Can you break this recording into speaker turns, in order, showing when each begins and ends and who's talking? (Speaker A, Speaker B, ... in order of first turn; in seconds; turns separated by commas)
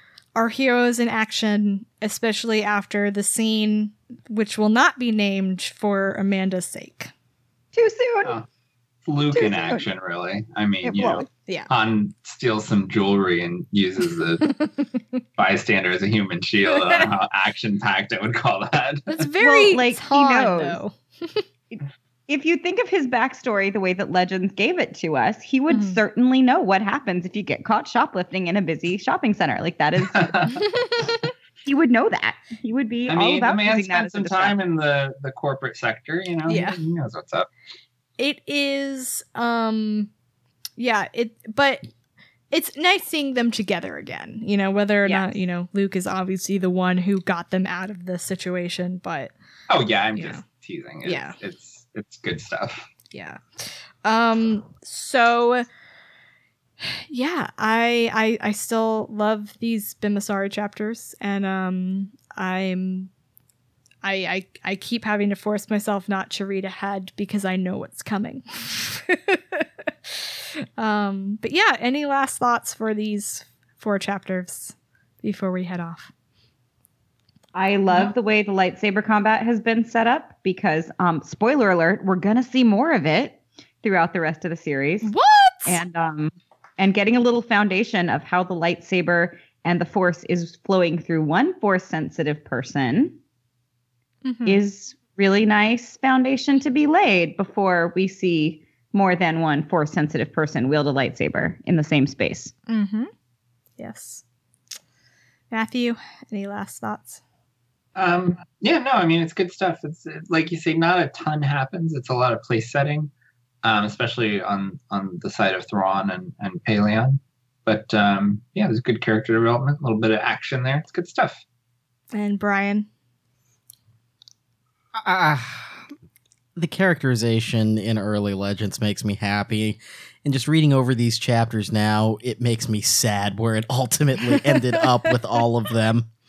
Speaker A: 0.4-7.1, Speaker B: 7.7-8.3, Speaker C: 9.1-14.6, Speaker B: 9.3-9.9, Speaker B: 10.8-11.3, Speaker C: 15.4-19.2, Speaker A: 16.7-17.0, Speaker A: 19.1-21.4, Speaker B: 19.4-20.8, Speaker B: 21.7-30.6, Speaker A: 25.7-26.0, Speaker C: 30.1-30.6, Speaker A: 30.7-31.1, Speaker B: 31.6-34.6, Speaker C: 33.1-37.5, Speaker A: 36.5-36.8, Speaker A: 38.2-40.1, Speaker A: 40.8-41.9, Speaker A: 42.5-49.3, Speaker B: 45.0-45.3, Speaker C: 49.7-52.9, Speaker A: 50.2-50.4, Speaker A: 51.0-51.4, Speaker A: 53.1-55.7, Speaker A: 56.8-63.1, Speaker A: 64.0-70.2, Speaker A: 70.8-76.1, Speaker B: 77.5-85.1, Speaker A: 85.0-85.8, Speaker B: 85.7-93.2, Speaker A: 94.2-94.6, Speaker B: 94.5-102.5, Speaker A: 102.7-103.1, Speaker A: 103.8-104.2, Speaker A: 105.5-107.2, Speaker C: 108.0-113.1, Speaker C: 113.6-121.4, Speaker A: 122.1-122.9, Speaker D: 125.0-125.9, Speaker D: 126.6-136.1, Speaker A: 134.2-135.1